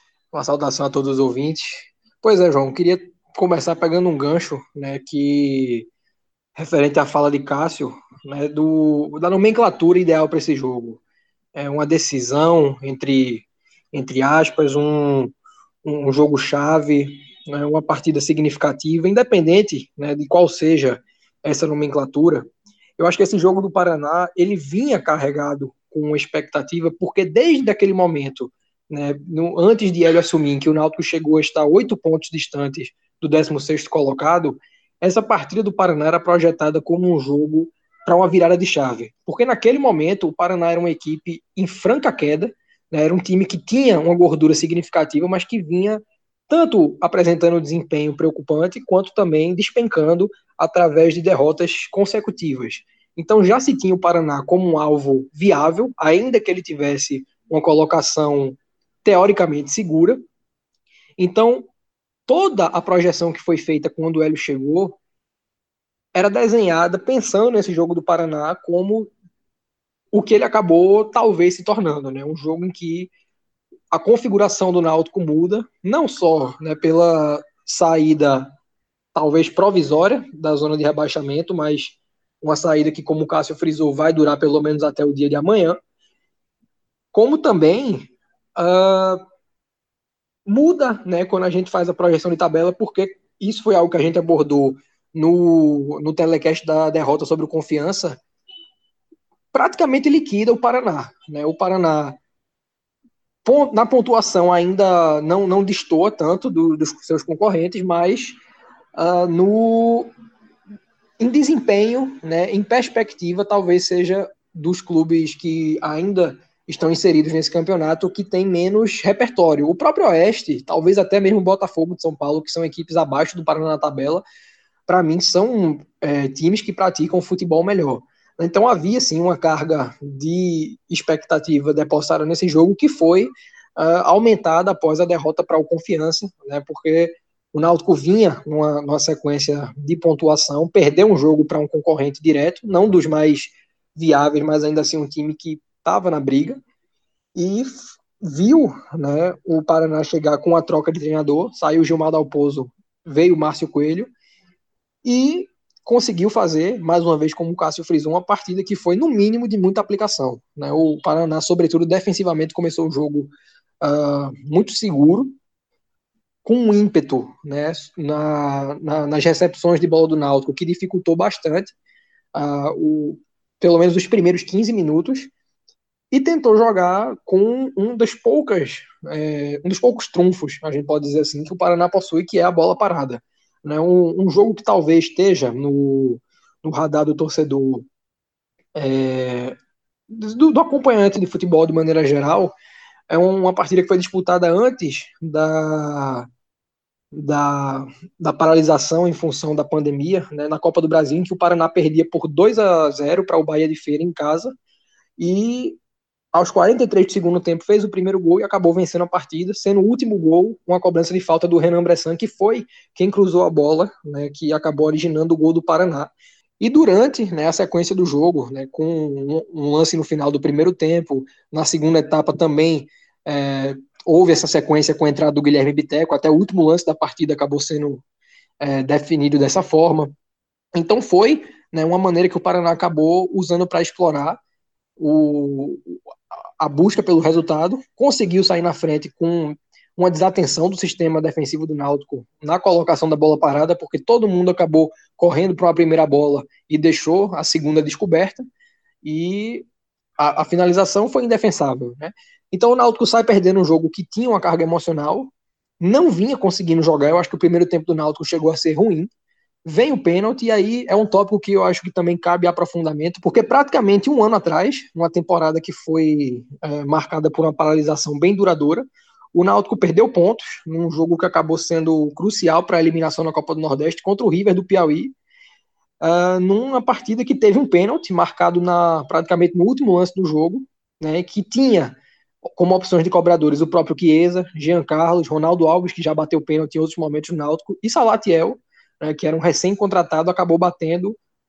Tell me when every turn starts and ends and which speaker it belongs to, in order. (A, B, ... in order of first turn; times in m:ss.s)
0:00.3-0:05.9 A
0:06.6-0:11.0 A
0:11.6-0:15.3 A
0:15.8-1:00.2 A
1:01.2-1:01.7 A
1:02.3-1:05.0 A
1:06.2-1:09.1 A
1:10.1-1:13.1 A
1:13.9-1:18.5 A
1:19.2-1:25.8 A
1:27.1-1:29.2 A
1:30.5-1:38.2 A
1:39.5-1:42.2 A
1:43.4-1:48.4 A
1:49.0-1:50.1 A
1:51.2-2:04.2 A
2:04.9-2:26.6 A
2:27.4-2:34.1 A
2:35.0-2:45.3 A
2:46.4-2:51.7 A
2:52.3-2:55.3 A
2:56.1-3:07.9 A
3:08.8-3:09.6 A
3:10.1-3:12.5 A
3:13.1-3:16.3 A
3:17.1-3:24.6 A
3:25.2-3:25.8 A
3:26.3-3:48.0 A
3:48.6-3:50.1 A
3:50.8-3:54.4 A
3:55.0-3:56.0 A
3:56.6-4:08.5 A
4:09.0-4:09.7 A
4:10.2-4:19.1 A
4:19.6-4:35.1 A
4:36.0-4:42.0 A
4:42.5-4:51.2 A